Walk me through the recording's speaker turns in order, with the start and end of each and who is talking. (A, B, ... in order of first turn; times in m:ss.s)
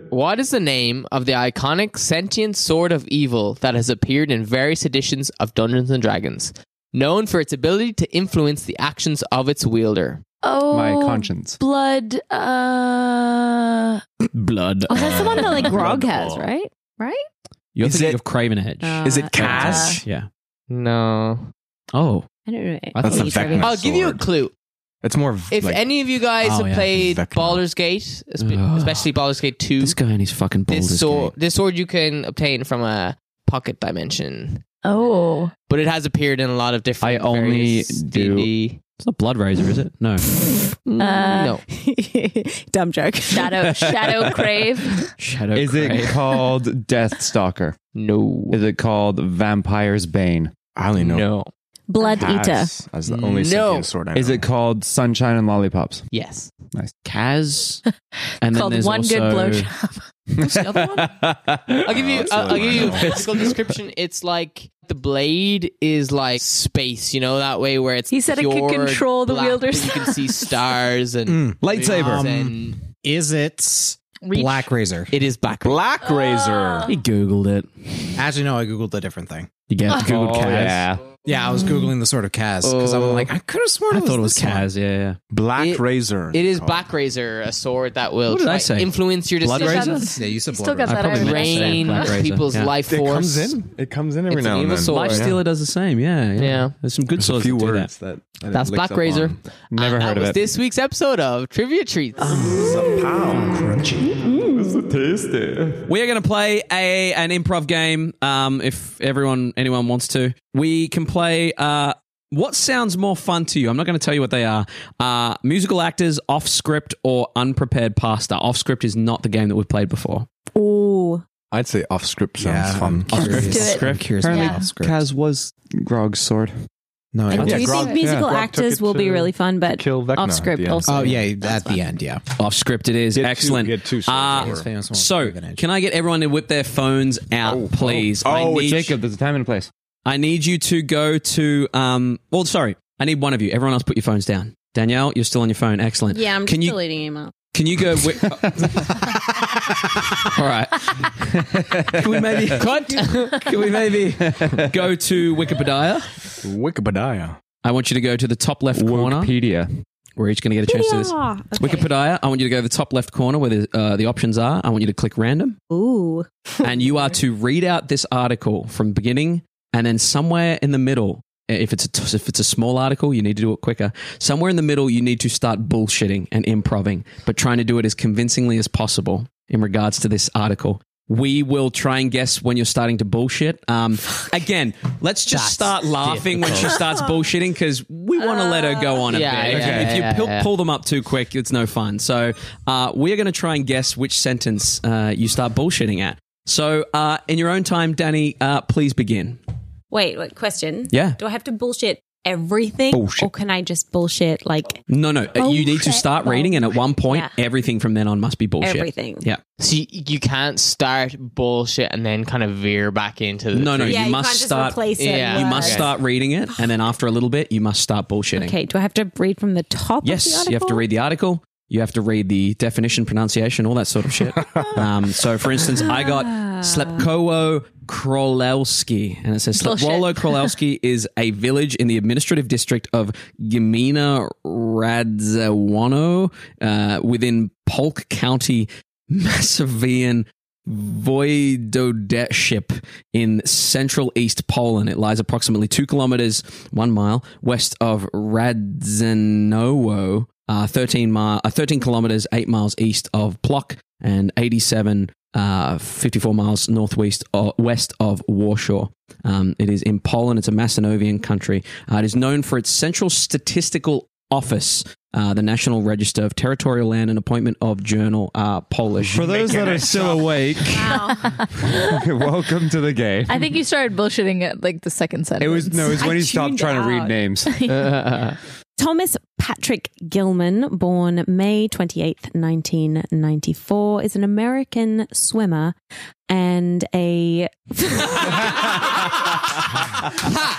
0:00.1-0:10.2 A
0:10.4-0:14.0 B
0:10.7-0:11.6 C
0:14.3-0:14.9 D
0:14.9-0:16.7 E
0:15.0-0:16.2 F
0:17.7-0:20.3 D
0:17.8-0:18.2 F
0:18.8-0:19.6 E
0:19.0-0:20.0 F
0:19.5-0:20.0 B
0:20.7-0:21.5 A
0:21.9-0:22.3 D
0:22.4-0:23.8 E
0:22.9-0:23.6 D
0:23.0-0:24.3 F
0:23.6-0:24.5 A
0:25.0-0:25.8 F
0:25.5-0:30.0 A
0:26.4-0:26.8 D
0:26.8-0:27.6 F
0:28.4-0:29.1 D
0:29.8-0:31.3 D
0:30.7-0:34.6 A
0:34.8-0:35.5 B
0:35.7-0:38.8 A
0:37.0-0:38.5 C
0:39.0-0:40.2 D
0:40.8-0:41.6 A
0:41.0-0:41.6 B
0:41.0-0:43.8 E
0:43.3-0:45.1 B
0:45.2-0:46.1 D
0:45.5-0:47.8 C
0:47.9-0:48.6 A
0:48.5-0:50.5 C
0:50.7-0:51.3 F
0:51.0-0:51.5 A
0:51.9-0:52.7 E
0:52.1-0:54.5 F
0:53.3-0:53.9 A
0:54.1-0:56.0 C
0:56.1-0:56.5 A
0:57.0-0:57.8 D
0:58.4-0:59.7 D
0:58.5-1:00.8 B
1:00.4-1:03.5 C
1:01.8-1:12.8 A
1:01.9-1:03.5 F
1:08.1-1:10.5 B
1:11.3-1:15.1 G
1:11.6-1:12.2 C
1:14.2-1:14.7 B
1:15.1-1:15.9 A
1:15.6-1:16.9 F
1:16.0-1:16.9 B
1:16.8-1:18.1 D
1:18.2-1:19.5 G
1:19.7-1:20.9 D
1:19.9-1:21.0 C
1:21.2-1:24.7 G
1:22.6-1:23.1 A
1:23.9-1:25.2 D
1:25.3-1:26.9 F
1:25.6-1:30.0 A
1:28.3-1:30.0 D
1:29.5-1:32.3 B
1:29.9-1:31.1 G
1:30.8-1:32.7 D
1:31.0-1:33.6 A
1:32.9-1:35.4 F
1:34.3-1:35.4 A
1:34.9-1:37.9 D
1:36.4-1:36.7 A
1:37.2-1:39.4 F
1:38.5-1:42.4 A
1:39.7-1:40.4 C
1:42.3-1:44.1 F
1:42.4-1:45.9 C
1:44.2-1:44.7 E
1:45.8-2:00.3 D
2:00.5-2:01.2 E
2:01.5-2:03.8 F
2:02.4-2:05.0 G
2:03.2-2:03.4 C
2:03.2-2:04.2 D
2:03.4-2:04.7 B
2:04.2-2:06.5 C
2:07.1-2:07.8 G
2:07.3-2:11.7 E
2:07.4-2:07.6 D
2:07.4-2:11.1 F
2:07.7-2:08.0 B
2:10.8-2:12.2 G
2:12.4-2:18.9 D
2:13.1-2:14.6 F
2:14.3-2:15.6 G
2:17.4-2:18.5 F
2:17.8-2:19.7 C
2:20.0-2:26.8 D
2:26.1-2:27.3 E
2:27.5-2:29.0 D
2:30.2-2:31.1 D
2:31.4-2:32.6 C
2:31.9-2:36.2 D
2:32.6-2:33.4 A
2:34.2-2:34.6 C
2:36.4-2:37.4 F
2:37.6-2:39.3 D
2:38.7-2:39.7 C
2:40.2-2:45.6 D
2:40.6-2:41.9 E
2:45.7-2:46.5 E
2:46.6-3:19.4 D
3:05.3-3:06.8 A
3:08.2-3:09.1 B
3:09.1-3:10.5 A
3:09.5-3:09.9 C
3:19.9-3:24.8 E
3:20.9-3:21.2 D
3:22.9-3:23.3 C
3:24.9-3:29.4 D
3:25.4-3:27.3 E
3:28.6-3:29.2 E
3:29.6-3:34.1 A
3:33.5-3:38.5 D
3:33.8-3:35.8 E
3:35.0-3:35.9 A
3:38.3-3:40.8 E
3:40.0-4:30.2 D
3:45.8-3:46.8 E
3:49.6-3:50.4 B
4:29.1-4:31.0 C
4:29.4-4:30.2 F
4:30.7-4:31.3 E
4:30.9-4:32.0 B
4:31.6-4:33.5 C
4:33.3-4:36.2 B
4:35.4-4:37.5 C
4:35.9-4:37.2 E
4:37.4-4:37.9 B
4:37.7-4:38.4 A
4:38.8-4:45.7 E
4:46.3-4:48.9 E